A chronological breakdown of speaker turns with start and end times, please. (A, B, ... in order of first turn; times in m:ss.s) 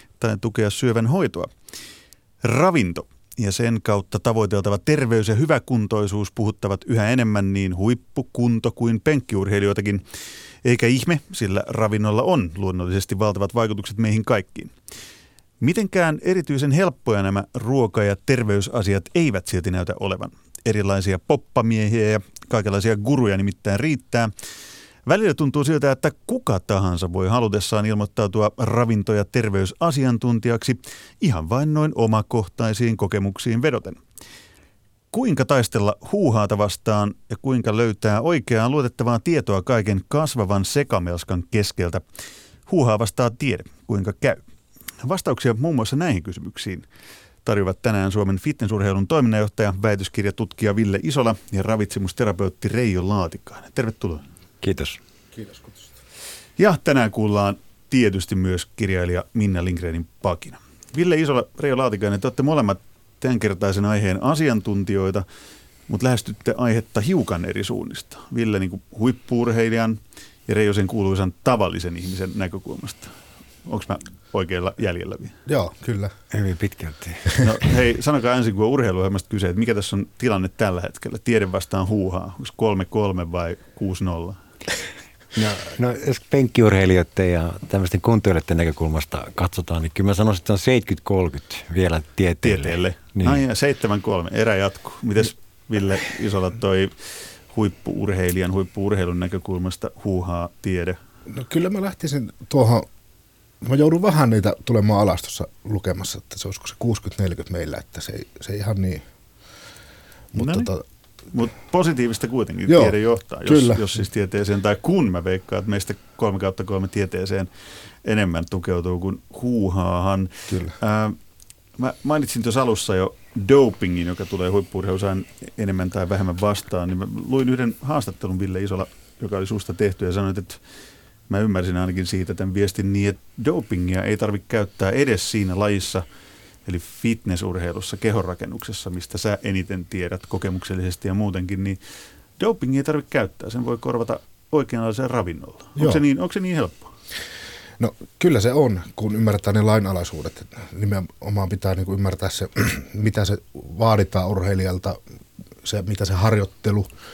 0:00.2-0:01.5 A
0:02.4-0:10.0 A
0:10.6-0:14.7 A
0:15.6-0:24.3 A
0:25.0-0:34.0 A
0:35.1-0:42.0 A
0:42.7-0:44.4 A
0:45.0-0:46.9 A
0:47.4-0:54.2 A
0:54.6-0:55.0 B
0:55.4-0:55.8 C
0:56.6-1:05.2 A
1:05.9-1:15.4 A
1:15.4-1:16.1 C
1:16.3-1:17.5 B
1:17.4-1:24.4 A
1:25.3-1:33.4 B
1:32.4-1:41.0 A
1:41.3-1:42.9 C
1:43.6-1:49.0 C
1:50.3-1:50.8 C
1:50.4-1:50.7 A
1:51.3-1:57.5 A
1:52.7-1:53.8 C
1:58.0-2:01.2 A
2:01.8-2:10.6 A
2:11.3-2:16.0 A
2:16.6-2:21.8 A
2:22.4-2:26.9 A
2:25.8-2:26.0 C
2:27.8-2:35.0 C
2:35.6-2:36.9 C